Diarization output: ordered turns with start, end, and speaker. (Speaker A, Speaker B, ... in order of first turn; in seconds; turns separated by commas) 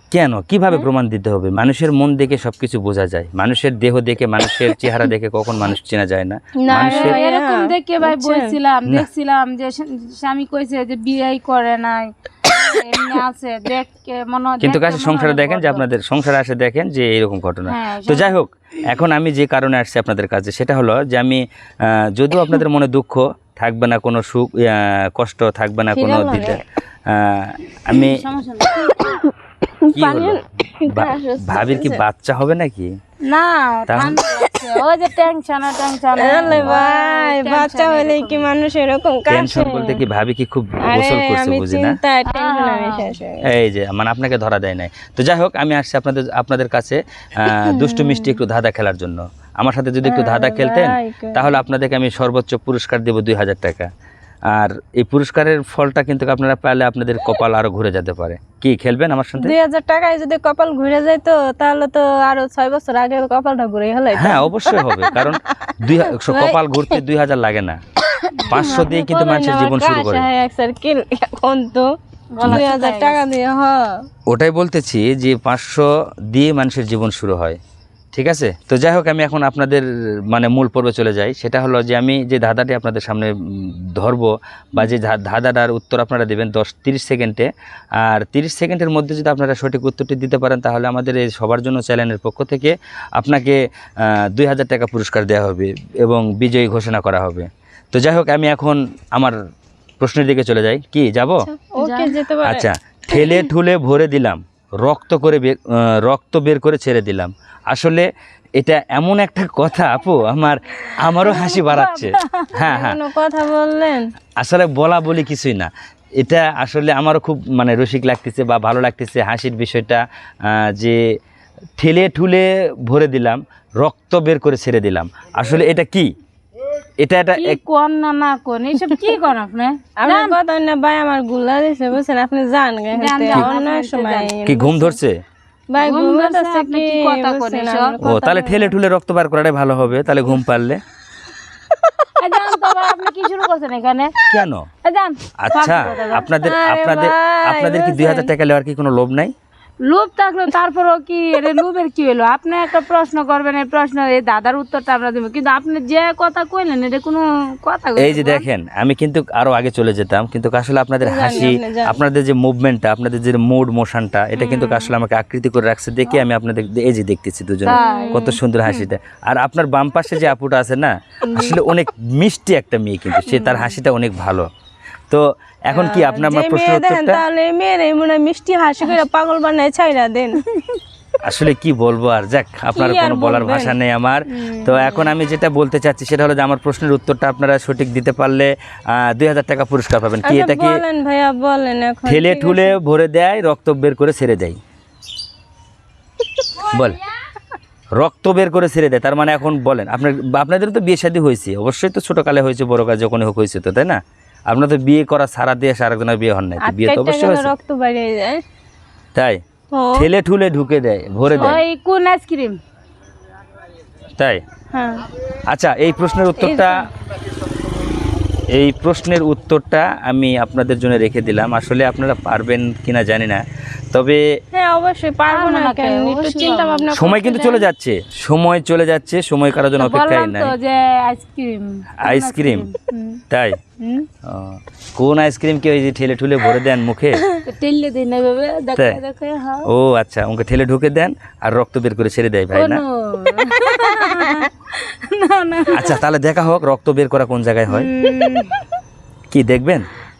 Speaker A: 0.1-7.2, Speaker B: 6.6-8.5, Speaker C: 6.7-15.8, Speaker A: 14.6-28.2, Speaker C: 17.6-18.4, Speaker C: 25.9-26.6, Speaker C: 27.9-29.2, Speaker B: 29.8-32.0, Speaker A: 29.9-32.9, Speaker C: 33.2-38.5, Speaker A: 33.9-34.2, Speaker B: 36.2-40.0, Speaker A: 36.5-36.8, Speaker A: 39.3-42.0, Speaker B: 40.8-43.5, Speaker C: 42.3-43.1, Speaker A: 43.4-53.9, Speaker B: 47.5-48.4, Speaker B: 50.0-51.6, Speaker A: 54.5-59.5, Speaker B: 59.4-66.6, Speaker A: 64.1-67.8, Speaker B: 68.4-71.9, Speaker A: 68.5-70.2, Speaker C: 72.3-73.2, Speaker B: 72.4-74.0, Speaker A: 74.3-77.6, Speaker A: 78.1-87.5, Speaker A: 88.0-99.3, Speaker A: 100.0-101.5, Speaker B: 101.5-103.5, Speaker C: 101.8-102.2, Speaker A: 102.4-113.0, Speaker C: 111.2-112.5, Speaker B: 112.5-114.1, Speaker A: 114.4-121.0, Speaker A: 121.8-126.1, Speaker A: 127.0-127.6, Speaker C: 127.4-130.4, Speaker B: 130.0-135.0, Speaker C: 132.9-134.3, Speaker A: 134.4-135.2, Speaker B: 135.7-138.8, Speaker C: 135.8-137.9, Speaker A: 138.0-140.8, Speaker C: 142.2-144.1, Speaker A: 144.3-144.7, Speaker C: 144.8-146.3, Speaker A: 145.4-149.3, Speaker B: 146.3-148.3, Speaker C: 149.8-158.4, Speaker A: 157.9-174.5, Speaker B: 161.0-162.0, Speaker C: 164.3-164.9, Speaker C: 167.7-168.9, Speaker B: 167.7-168.4, Speaker B: 171.3-171.6, Speaker C: 173.2-173.7, Speaker A: 175.1-177.2, Speaker B: 175.7-180.4, Speaker A: 181.2-190.8, Speaker B: 182.7-183.8, Speaker B: 190.2-192.8, Speaker A: 192.1-194.6, Speaker A: 196.7-197.0, Speaker A: 198.0-207.5, Speaker B: 206.6-208.4, Speaker A: 209.1-209.4, Speaker B: 209.7-210.1, Speaker A: 209.9-211.6, Speaker C: 211.4-212.6, Speaker B: 214.7-215.0, Speaker A: 215.5-216.8, Speaker B: 216.4-216.8, Speaker A: 218.5-224.2, Speaker B: 224.5-227.7, Speaker C: 225.3-226.9, Speaker A: 226.9-230.5, Speaker C: 229.8-233.2, Speaker A: 232.0-232.7, Speaker A: 233.3-233.6, Speaker C: 233.8-234.1, Speaker A: 234.2-237.2, Speaker C: 237.4-239.7, Speaker A: 238.8-239.0, Speaker A: 239.6-242.8, Speaker C: 242.5-246.0, Speaker B: 243.7-244.5, Speaker A: 245.7-247.9, Speaker C: 247.7-248.7, Speaker B: 248.0-248.3, Speaker A: 249.3-249.9